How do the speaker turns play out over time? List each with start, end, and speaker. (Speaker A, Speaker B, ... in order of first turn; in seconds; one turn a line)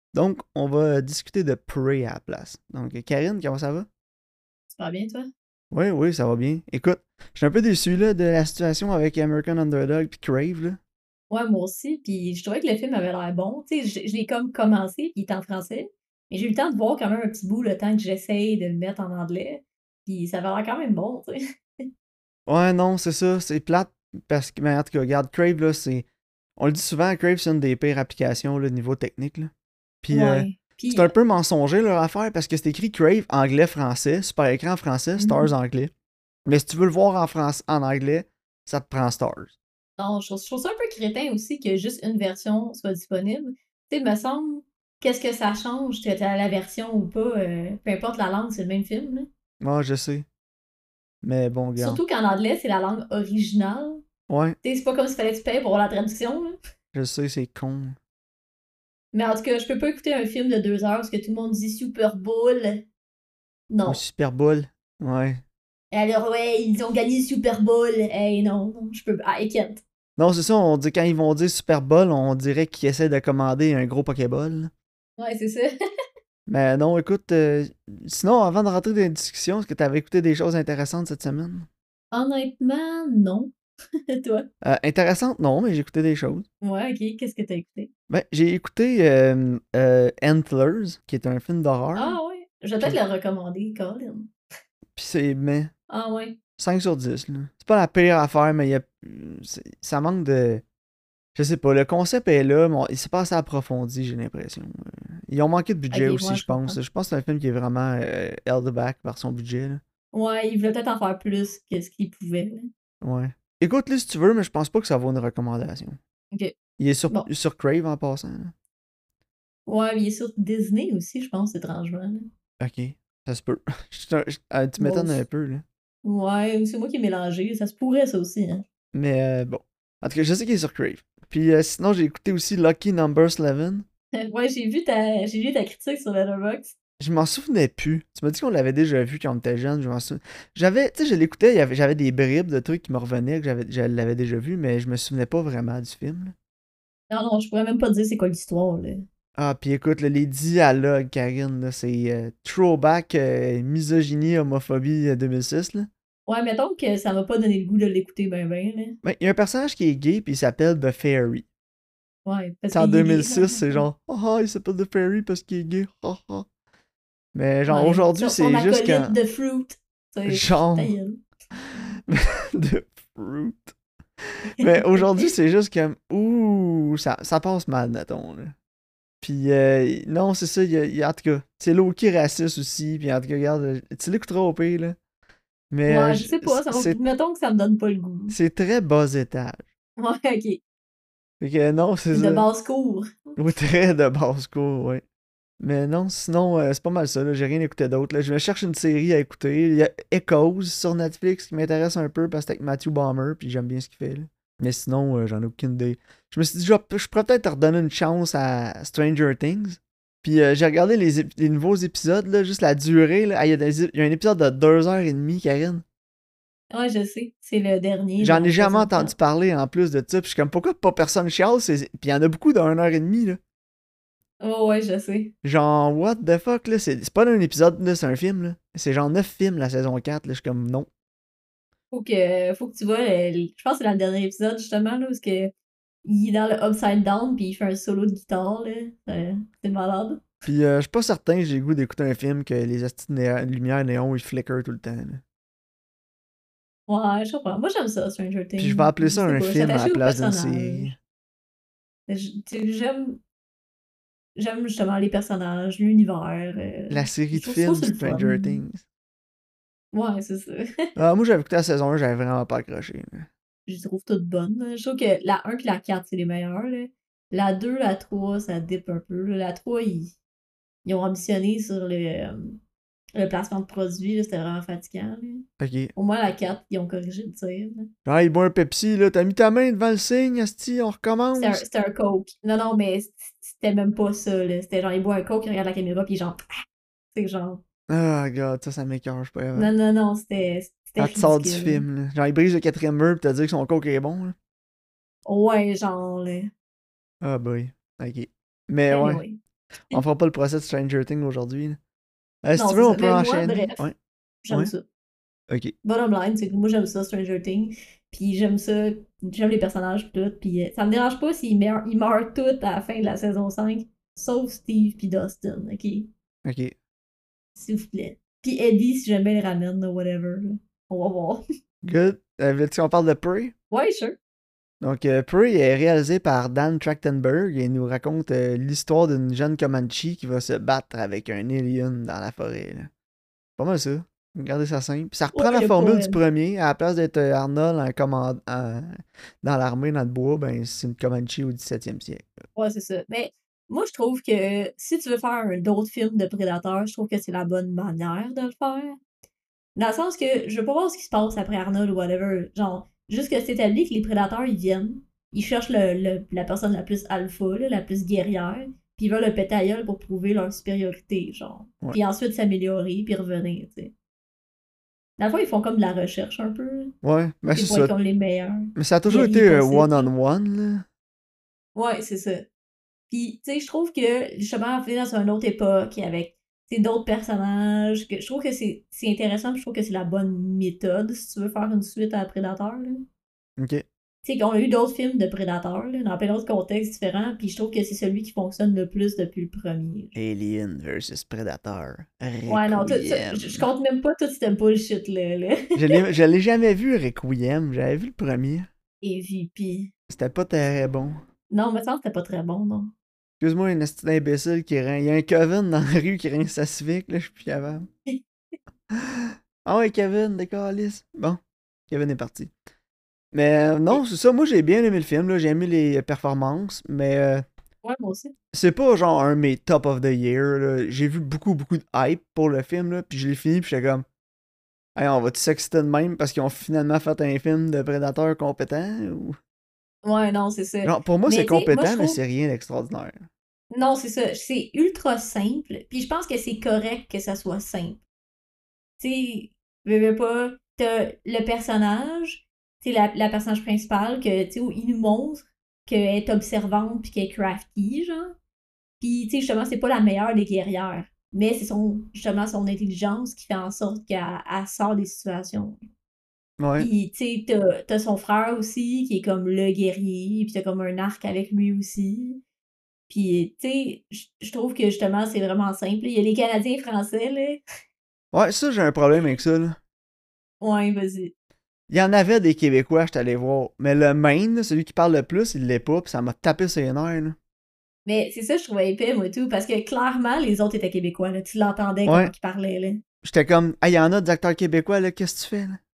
Speaker A: 0.1-3.9
Speaker B: 4.7-5.3
Speaker A: 5.7-10.8
Speaker B: 11.3-21.9
Speaker A: 22.5-29.5
Speaker A: 30.0-35.9
Speaker B: 30.1-31.1
Speaker B: 35.2-35.5
Speaker A: 36.5-39.5
Speaker B: 40.0-49.3
Speaker A: 49.6-50.2
Speaker A: 51.2-52.0
Speaker B: 51.8-54.0
Speaker A: 54.3-54.6
Speaker B: 54.6-56.6
Speaker A: 56.9-58.0
Speaker B: 59.1-62.8
Speaker B: 63.7-64.0
Speaker A: 63.9-65.4
Speaker B: 65.9-69.8
Speaker A: 70.2-74.7
Speaker B: 75.2-75.7
Speaker A: 76.5-81.7
Speaker B: 82.1-83.5
Speaker B: 84.1-84.5
Speaker A: 84.6-86.5
Speaker B: 86.6-87.9
Speaker A: 88.1-92.2
Speaker B: 91.9-94.3
Speaker A: 95.0-95.7
Speaker B: 95.9-96.4
Speaker A: 96.6-100.6
Speaker A: 101.3-109.8
Speaker B: 105.9-106.8
Speaker B: 110.1-112.7
Speaker A: 113.0-116.0
Speaker A: 116.8-118.5
Speaker B: 119.7-122.3
Speaker A: 122.6-125.6
Speaker B: 124.8-125.2
Speaker B: 126.0-128.6
Speaker A: 128.9-133.8
Speaker B: 134.1-136.7
Speaker A: 137.0-146.3
Speaker B: 147.1-149.1
Speaker A: 149.3-155.9
Speaker B: 156.3-159.0
Speaker A: 159.0-161.4
Speaker B: 162.2-163.8
Speaker A: 162.7-166.5
Speaker A: 167.3-169.2
Speaker B: 167.7-171.2
Speaker A: 170.3-170.9
Speaker A: 171.6-173.7
Speaker A: 174.4-178.5
Speaker B: 174.6-175.3
Speaker A: 179.2-185.0
Speaker A: 185.7-187.0
Speaker B: 185.9-188.3
Speaker A: 188.3-189.6
Speaker B: 190.0-190.6
Speaker A: 191.4-192.5
Speaker B: 192.1-193.4
Speaker A: 193.3-195.0
Speaker A: 195.6-215.8
Speaker B: 216.7-219.1
Speaker A: 218.2-223.4
Speaker B: 224.4-225.3
Speaker A: 225.4-230.9
Speaker B: 231.9-235.5
Speaker B: 236.0-240.2
Speaker A: 240.4-245.2
Speaker B: 246.9-250.9
Speaker A: 248.6-251.0
Speaker B: 252.1-253.2
Speaker B: 254.3-258.6
Speaker A: 256.9-258.8
Speaker B: 259.9-260.9
Speaker A: 260.9-263.3
Speaker B: 263.7-270.1
Speaker B: 270.8-272.6
Speaker B: 273.1-277.9
Speaker A: 275.6-275.9
Speaker A: 278.0-281.6
Speaker B: 281.3-286.4
Speaker B: 287.1-287.6
Speaker A: 287.9-289.7
Speaker B: 289.5-291.8
Speaker A: 291.0-294.4
Speaker B: 295.2-296.5
Speaker A: 297.2-299.2
Speaker B: 298.9-299.4
Speaker A: 299.9-301.8
Speaker A: 302.4-303.9
Speaker B: 302.6-303.9
Speaker B: 304.4-304.8
Speaker A: 305.5-305.7
Speaker B: 305.8-316.1
Speaker A: 316.4-316.7
Speaker B: 317.6-321.4
Speaker A: 321.8-323.5
Speaker B: 323.7-324.2
Speaker A: 324.8-332.9
Speaker A: 333.6-342.4
Speaker B: 335.3-336.2
Speaker B: 342.6-349.0
Speaker B: 349.8-363.9
Speaker B: 365.2-366.9
Speaker A: 367.0-367.9
Speaker B: 367.5-370.1
Speaker A: 368.8-370.8
Speaker B: 371.7-372.5
Speaker B: 373.1-383.1
Speaker A: 383.6-383.8
Speaker B: 384.2-390.1
Speaker A: 390.1-393.6
Speaker B: 392.5-396.0
Speaker A: 395.8-398.7
Speaker B: 399.0-399.9
Speaker A: 400.1-401.2
Speaker B: 401.5-402.9
Speaker A: 403.4-407.9
Speaker A: 408.9-412.5
Speaker A: 413.3-417.5
Speaker B: 417.8-418.3
Speaker A: 418.5-424.1
Speaker A: 424.9-429.4
Speaker B: 430.0-432.2
Speaker A: 430.8-433.2
Speaker B: 433.7-438.0
Speaker B: 439.0-448.3
Speaker B: 449.0-455.8
Speaker A: 456.6-456.9
Speaker B: 456.8-462.4
Speaker B: 463.1-467.6
Speaker A: 468.3-469.8
Speaker B: 470.6-471.3
Speaker A: 471.9-477.4
Speaker B: 478.1-483.0
Speaker A: 482.1-482.3
Speaker A: 483.2-485.8